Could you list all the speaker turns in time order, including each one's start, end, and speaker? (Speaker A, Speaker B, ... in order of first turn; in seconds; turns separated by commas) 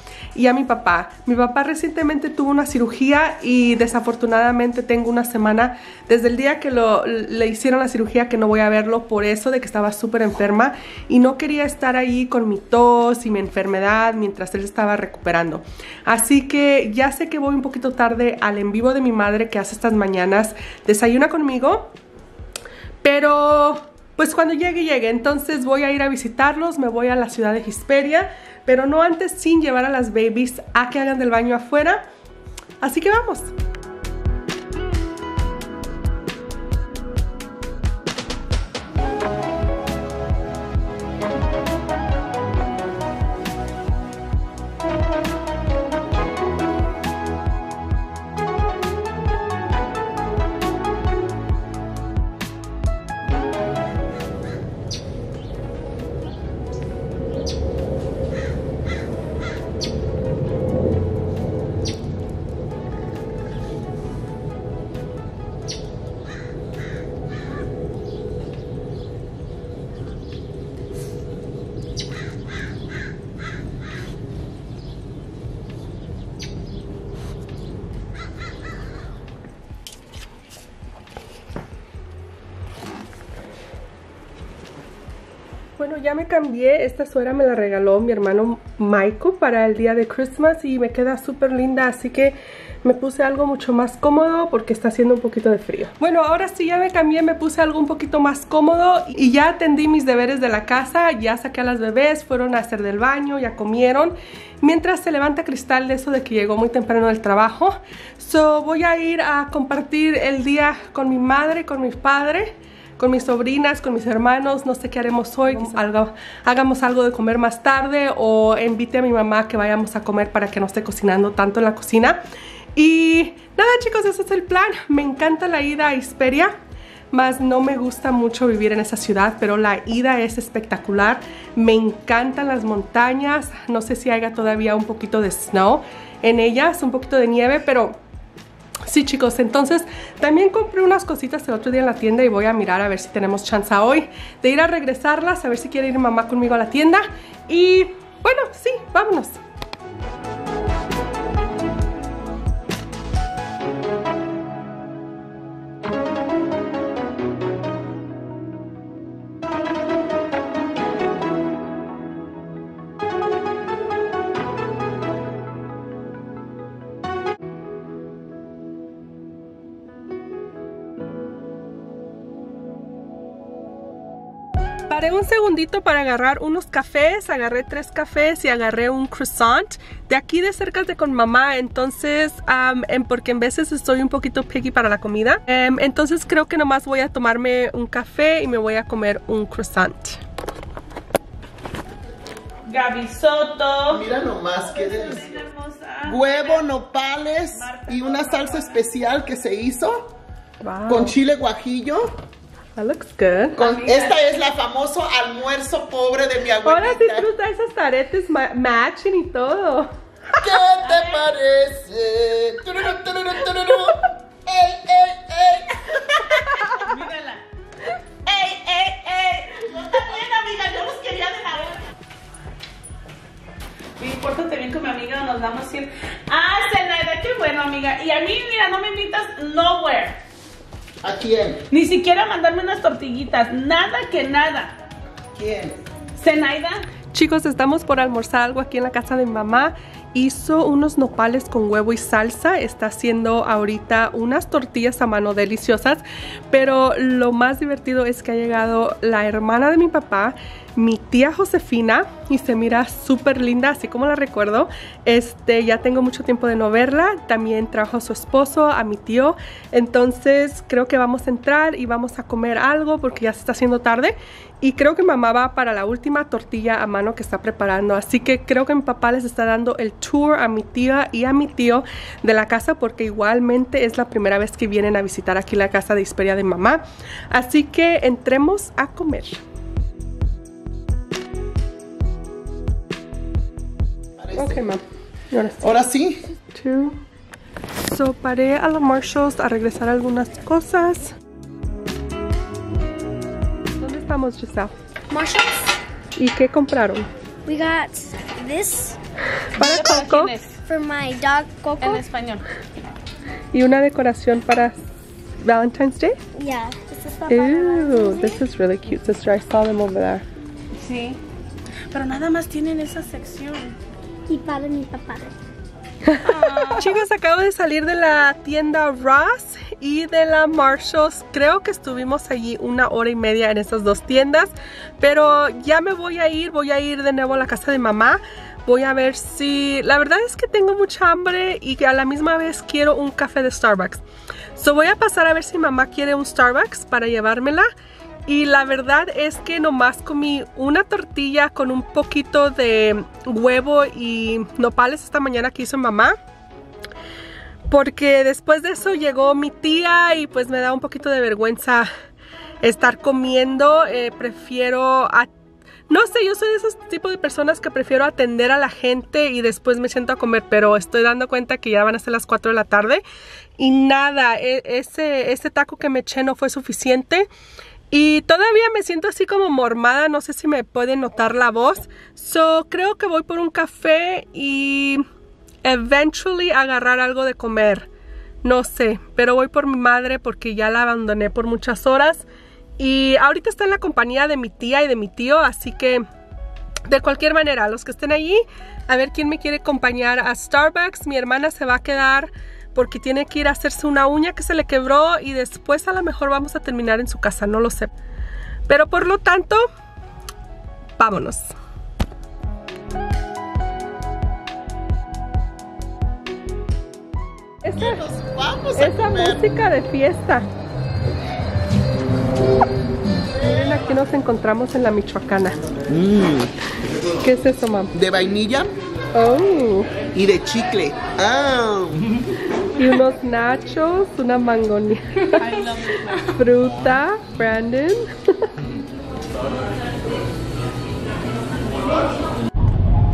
Speaker A: 0.3-21.9, Speaker A: 23.0-32.0, Speaker A: 32.8-33.5, Speaker A: 85.8-122.2, Speaker A: 122.8-126.5, Speaker A: 127.1-138.0, Speaker A: 138.9-149.4, Speaker A: 174.9-190.2, Speaker B: 192.7-194.1, Speaker C: 193.9-195.2, Speaker B: 194.6-196.6, Speaker C: 196.1-200.1, Speaker B: 197.5-198.8, Speaker A: 200.6-201.2, Speaker C: 200.9-202.2, Speaker A: 202.8-203.6, Speaker C: 203.6-207.3, Speaker B: 203.6-204.2, Speaker A: 206.6-209.9, Speaker C: 210.4-216.7, Speaker B: 210.8-211.3, Speaker B: 216.3-217.4, Speaker B: 218.2-221.8, Speaker B: 224.0-230.2, Speaker C: 231.0-231.6, Speaker B: 231.7-234.7, Speaker C: 235.3-235.8, Speaker B: 236.2-236.8, Speaker A: 237.1-279.4, Speaker C: 284.2-284.8, Speaker A: 284.3-285.8, Speaker C: 285.6-286.2, Speaker A: 286.5-287.0, Speaker A: 287.8-291.1, Speaker A: 293.8-294.7, Speaker D: 295.1-295.7, Speaker A: 296.1-297.1, Speaker D: 297.4-299.0, Speaker A: 299.6-300.3, Speaker B: 299.6-300.6, Speaker D: 300.7-302.0, Speaker B: 301.8-302.5, Speaker A: 303.5-304.8, Speaker A: 305.4-306.2, Speaker D: 306.3-308.4, Speaker A: 307.3-310.2, Speaker B: 310.8-311.2, Speaker B: 311.9-313.8, Speaker D: 314.3-315.3, Speaker A: 316.0-334.0, Speaker B: 316.2-317.0, Speaker A: 334.6-337.7, Speaker A: 338.3-346.1, Speaker A: 347.7-351.9, Speaker A: 352.6-355.3, Speaker A: 355.9-363.0, Speaker A: 363.6-367.3, Speaker A: 367.9-375.0, Speaker A: 375.6-377.9, Speaker A: 378.4-382.2, Speaker A: 382.8-386.0, Speaker A: 386.9-397.9, Speaker A: 398.7-399.6, Speaker A: 401.0-401.5, Speaker A: 407.6-408.0, Speaker C: 407.8-409.4, Speaker A: 408.8-410.5, Speaker A: 413.4-415.6, Speaker C: 415.9-416.5, Speaker A: 417.2-417.9, Speaker C: 417.9-418.7, Speaker A: 419.1-419.9, Speaker C: 420.1-422.1, Speaker A: 422.7-425.7, Speaker B: 425.4-426.2, Speaker A: 426.2-428.1